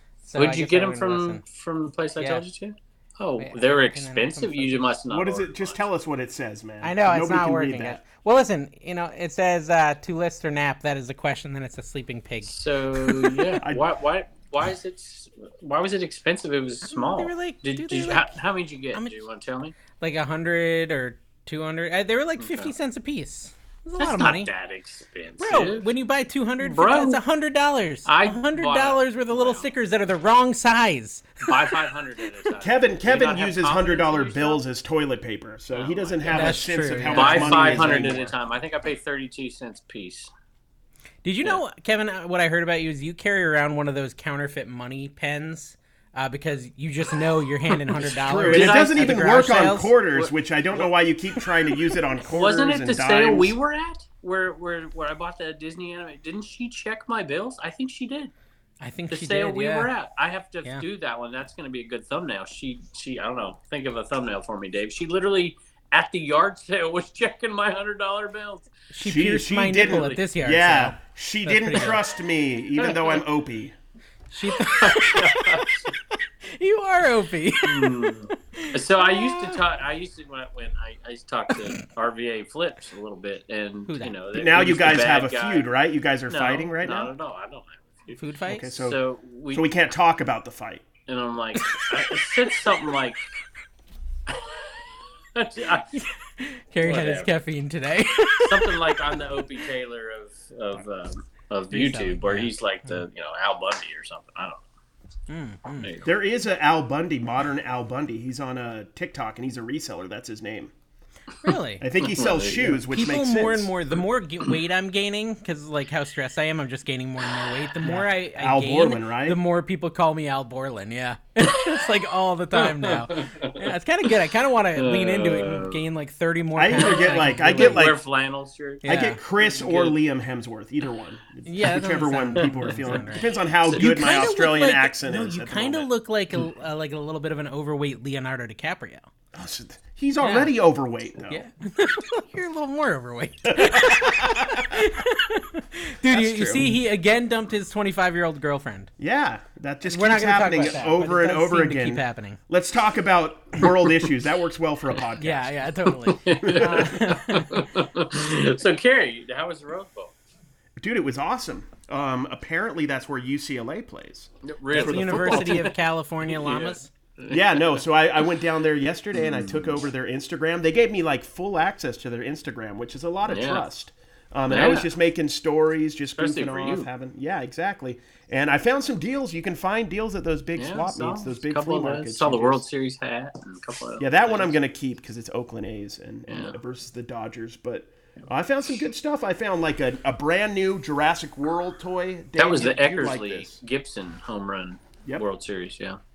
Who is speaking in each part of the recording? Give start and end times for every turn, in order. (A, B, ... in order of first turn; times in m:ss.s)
0:00.2-0:01.4 A
0:00.4-0:05.8 B
0:02.2-0:02.4 A
0:03.4-0:04.8 A
0:05.1-0:08.0 C
0:06.8-0:13.6 A
0:12.4-0:19.7 B
0:16.8-0:18.3 A
0:20.0-0:24.5 A
0:22.4-0:22.7 B
0:24.0-0:25.9 B
0:25.4-0:31.8 A
0:26.6-0:27.2 B
0:28.0-0:29.7 B
0:31.4-0:34.6 B
0:32.6-0:38.3 C
0:35.7-0:40.3 B
0:36.3-0:38.2 A
0:41.2-0:49.9 A
0:48.0-0:53.6 C
0:48.3-0:49.3 B
0:50.1-0:50.9 B
0:52.2-0:58.3 B
0:58.8-0:59.9 A
0:59.1-1:08.7 B
1:08.9-1:12.0 A
1:09.0-1:13.7 C
1:09.8-1:10.2 B
1:12.8-1:13.2 B
1:14.3-1:19.6 A
1:14.6-1:15.9 B
1:17.6-1:25.7 B
1:23.9-1:24.1 A
1:24.3-1:27.1 C
1:26.3-1:29.6 B
1:28.1-1:28.7 A
1:28.5-1:29.0 C
1:29.5-1:30.8 C
1:31.1-1:33.2 B
1:34.3-1:35.9 B
1:35.9-1:39.2 A
1:36.8-1:37.3 B
1:38.4-1:44.6 B
1:41.7-1:43.0 A
1:45.3-1:45.9 A
1:45.8-1:46.1 B
1:46.0-1:50.7 C
1:51.4-1:51.8 A
1:51.8-1:53.7 C
1:52.0-1:52.7 B
1:52.7-2:07.9 A
1:57.8-1:59.4 C
2:02.5-2:03.6 B
2:04.8-2:05.8 B
2:06.6-2:08.0 C
2:06.8-2:10.0 B
2:08.8-2:09.2 A
2:08.8-2:15.9 C
2:11.4-2:19.0 A
2:12.4-2:13.0 B
2:13.6-2:13.9 B
2:19.3-2:21.4 C
2:20.2-2:20.5 A
2:21.3-2:28.9 A
2:23.5-2:24.8 C
2:26.1-2:26.8 C
2:29.0-2:35.5 C
2:29.8-2:32.4 A
2:35.2-2:37.7 A
2:36.1-2:40.1 B
2:36.4-2:36.9 C
2:40.8-2:45.7 C
2:44.4-2:47.8 B
2:44.7-2:46.9 A
2:47.3-3:02.6 C
2:49.1-2:49.8 B
2:53.2-2:53.6 B
2:54.5-2:54.9 B
2:56.2-2:56.9 B
3:00.6-3:04.5 B
3:04.0-3:13.6 C
3:06.3-3:06.6 B
3:12.4-3:16.0 B